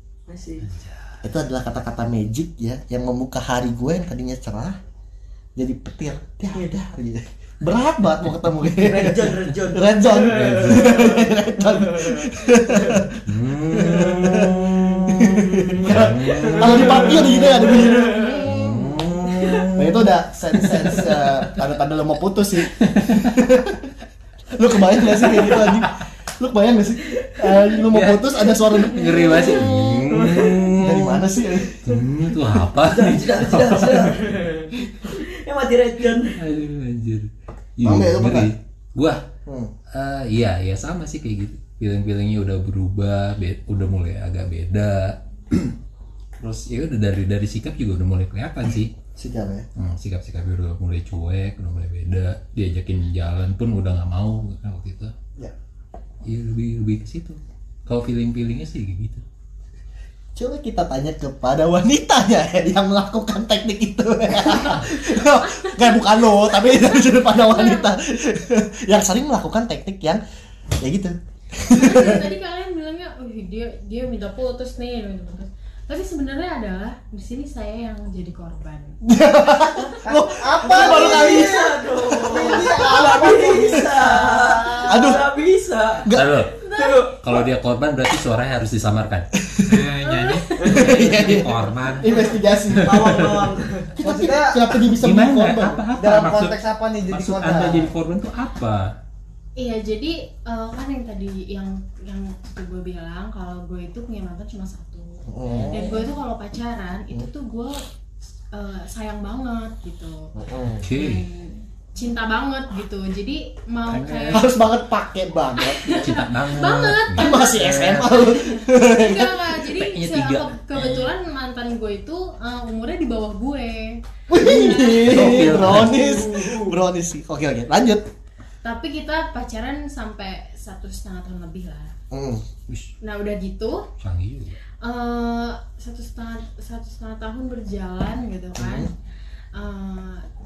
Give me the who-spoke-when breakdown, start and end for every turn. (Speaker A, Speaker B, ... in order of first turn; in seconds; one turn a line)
Speaker A: 0.3-0.7
Speaker B: 0.8-1.1
Speaker C: 1.2-4.8
Speaker C: 5.6-18.8
Speaker A: 8.8-12.2
Speaker B: 10.3-11.0
Speaker A: 12.8-13.1
Speaker B: 13.3-17.8
Speaker A: 15.6-18.6
Speaker B: 18.5-21.4
Speaker A: 19.4-19.7
Speaker C: 19.8-23.9
Speaker B: 22.8-23.3
Speaker C: 24.6-29.5
Speaker B: 25.2-25.9
Speaker A: 25.2-25.7
Speaker A: 27.1-27.8
Speaker B: 27.9-31.3
Speaker A: 29.1-30.9
Speaker C: 30.8-31.8
Speaker A: 31.4-32.0
Speaker B: 31.8-34.3
Speaker A: 32.7-36.4
Speaker B: 36.4-39.2
Speaker C: 37.8-38.5
Speaker C: 39.5-39.7
Speaker B: 39.9-45.8
Speaker B: 46.4-48.9
Speaker C: 49.2-49.7
Speaker B: 49.8-55.1
Speaker B: 56.2-59.2
Speaker C: 60.4-70.2
Speaker D: 64.5-67.9
Speaker C: 70.8-72.3
Speaker D: 71.7-79.0
Speaker C: 79.0-81.8
Speaker D: 79.5-79.9
Speaker E: 80.0-84.8
Speaker A: 80.7-86.1
Speaker C: 84.9-85.2
Speaker B: 86.1-86.6
Speaker D: 86.6-87.2
Speaker A: 86.6-87.5
Speaker B: 87.2-93.5
Speaker C: 89.4-89.8
Speaker D: 90.0-91.0
Speaker A: 90.6-91.4
Speaker C: 90.7-93.3
Speaker A: 92.1-94.0
Speaker C: 94.0-95.8
Speaker E: 94.0-94.8
Speaker B: 95.0-96.6
Speaker E: 95.9-97.9
Speaker B: 97.1-98.9
Speaker D: 99.6-107.8
Speaker C: 105.3-106.1
Speaker D: 108.5-110.3
Speaker C: 110.4-110.8
Speaker B: 110.8-111.2
Speaker D: 110.9-114.5
Speaker B: 113.9-114.5
Speaker C: 114.3-116.2
Speaker D: 115.6-125.4
Speaker B: 116.0-118.2
Speaker C: 117.2-119.4
Speaker B: 119.6-121.1
Speaker C: 124.3-128.1
Speaker B: 125.1-126.0
Speaker A: 125.8-126.7
Speaker D: 128.6-131.9
Speaker C: 132.1-132.4
Speaker D: 133.0-133.9
Speaker B: 134.0-134.6
Speaker D: 134.8-138.9
Speaker C: 138.6-138.9
Speaker D: 139.6-140.2